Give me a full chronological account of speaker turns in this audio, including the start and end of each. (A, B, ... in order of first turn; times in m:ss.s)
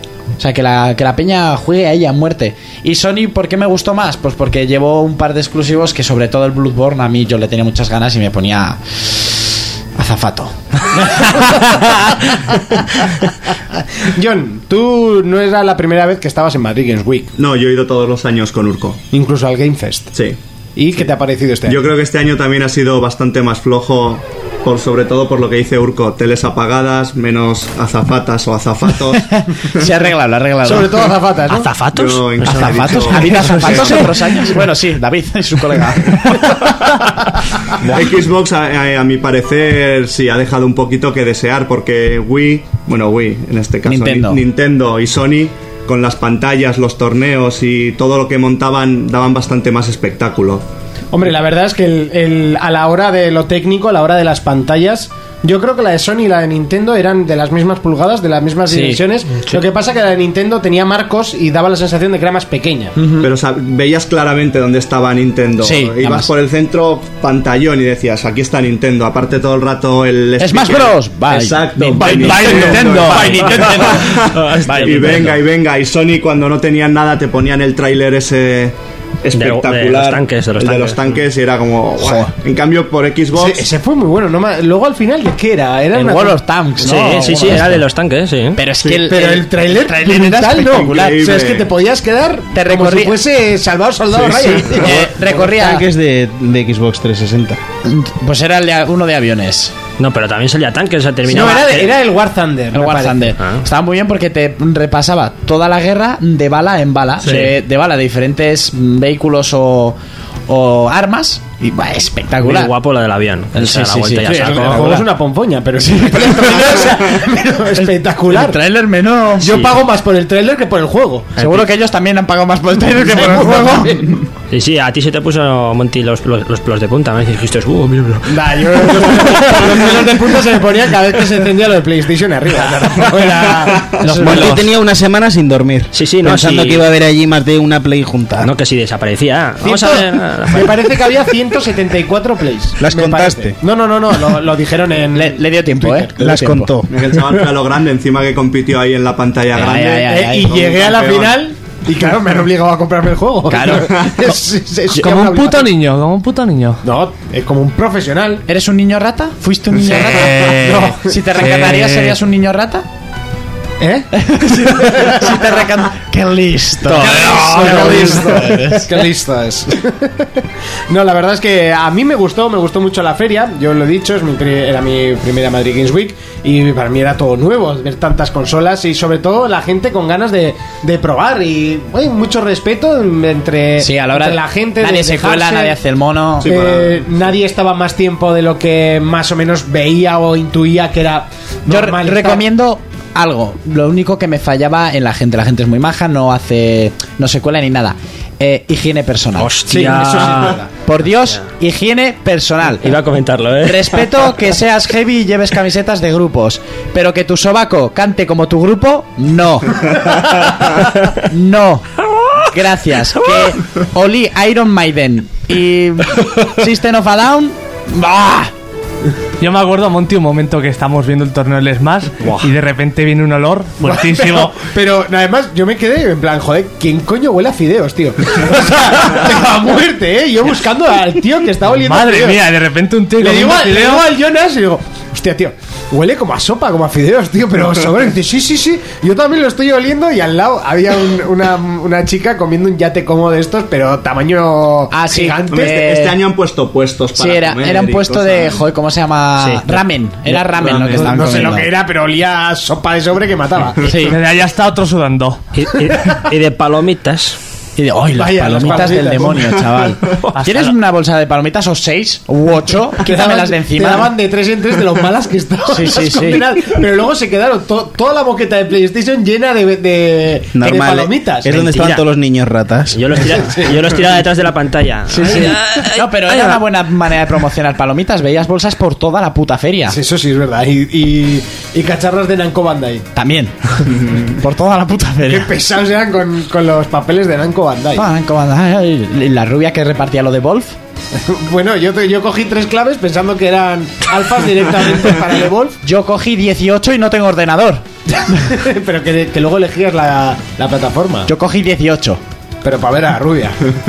0:00.4-0:11.3 A
0:11.2-0:11.5 B
0:14.0-0:17.3 B
0:17.4-0:19.0 C
0:19.1-0:20.1 B
0:20.8-0:21.8 B
0:21.7-0:29.8 C
0:29.2-0:31.1 A
0:30.6-0:31.7 B
0:31.5-0:33.0 D
0:31.9-0:34.1 C
0:32.4-0:36.6 A
0:33.1-0:34.4 E
0:37.8-0:38.1 A
0:37.9-0:50.6 C
0:43.9-0:44.4 A
0:51.1-1:03.0 B
0:58.7-0:59.0 A
1:03.0-1:03.3 A
1:03.2-1:23.7 C
1:05.6-1:06.3 A
1:10.4-1:15.4 A
1:12.1-1:13.7 E
1:12.5-1:12.8 B
1:13.6-1:15.3 D
1:19.3-1:21.0 D
1:22.0-1:22.3 A
1:23.3-1:26.4 B
1:25.9-1:27.8 A
1:26.8-1:28.6 D
1:28.6-1:31.3 A
1:29.0-1:34.9 B
1:30.9-1:31.7 C
1:32.5-1:33.2 A
1:34.4-1:35.9 A
1:34.8-1:37.6 F
1:37.8-1:39.7 A
1:40.0-1:42.0 D
1:41.3-1:43.2 B
1:42.7-1:50.0 A
1:47.2-1:47.5 D
1:50.5-1:52.7 A
1:52.4-1:55.0 D
1:53.5-1:55.1 A
1:54.3-1:58.6 B
1:55.8-1:57.0 A
1:57.8-1:59.6 A
1:59.4-2:01.3 B
2:01.4-2:01.7 D
2:01.4-2:04.2 A
2:03.1-2:04.2 B
2:04.5-2:09.6 D
2:08.3-2:14.0 B
2:13.7-2:14.2 C
2:14.0-2:14.6 A
2:14.1-2:18.5 F
2:14.2-2:14.6 E
2:15.9-2:16.8 D
2:18.4-2:21.0 D
2:19.6-2:26.1 B
2:22.8-2:23.6 F
2:25.1-2:26.7 A
2:26.2-2:26.9 F
2:26.9-2:31.4 C
2:29.5-2:30.5 A
2:30.0-2:35.7 B
2:33.5-2:34.4 A
2:35.0-2:36.8 E
2:36.8-2:38.4 B
2:38.5-2:42.9 A
2:39.8-2:42.2 E
2:40.4-2:41.3 B
2:43.8-2:45.4 B
2:44.1-2:49.0 A
2:46.9-3:05.8 B
3:03.8-3:06.5 A
3:06.4-3:07.0 C
3:06.4-3:12.4 B
3:11.7-3:23.0 A
3:19.4-3:20.6 D
3:19.7-3:20.7 B
3:22.8-3:24.1 D
3:23.6-3:31.9 A
3:32.4-3:38.5 A
3:39.4-3:44.6 E
3:42.2-3:42.5 D
3:43.8-3:52.5 B
3:51.8-3:54.1 E
3:53.2-4:05.8 B
4:04.9-4:06.2 A
4:05.5-4:08.6 C
4:07.2-4:11.7 A
4:10.4-4:13.8 B
4:13.8-4:14.2 A
4:14.0-4:15.5 E
4:15.5-4:17.4 D
4:17.8-4:24.1 A
4:18.2-4:19.6 B
4:20.4-4:20.7 E
4:23.0-4:31.5 B
4:25.7-4:26.5 A
4:30.6-4:33.0 F
4:31.5-4:32.0 D
4:32.9-4:36.6 D
4:33.3-4:33.7 B
4:35.1-4:40.0 A
4:39.9-4:43.1 B
4:43.2-4:45.5 A
4:45.3-4:48.1 B
4:48.0-4:50.8 A
4:51.2-4:55.8 B
4:55.8-4:58.5 A
4:58.2-5:01.3 B
5:01.3-5:02.2 A
5:02.6-5:03.6 B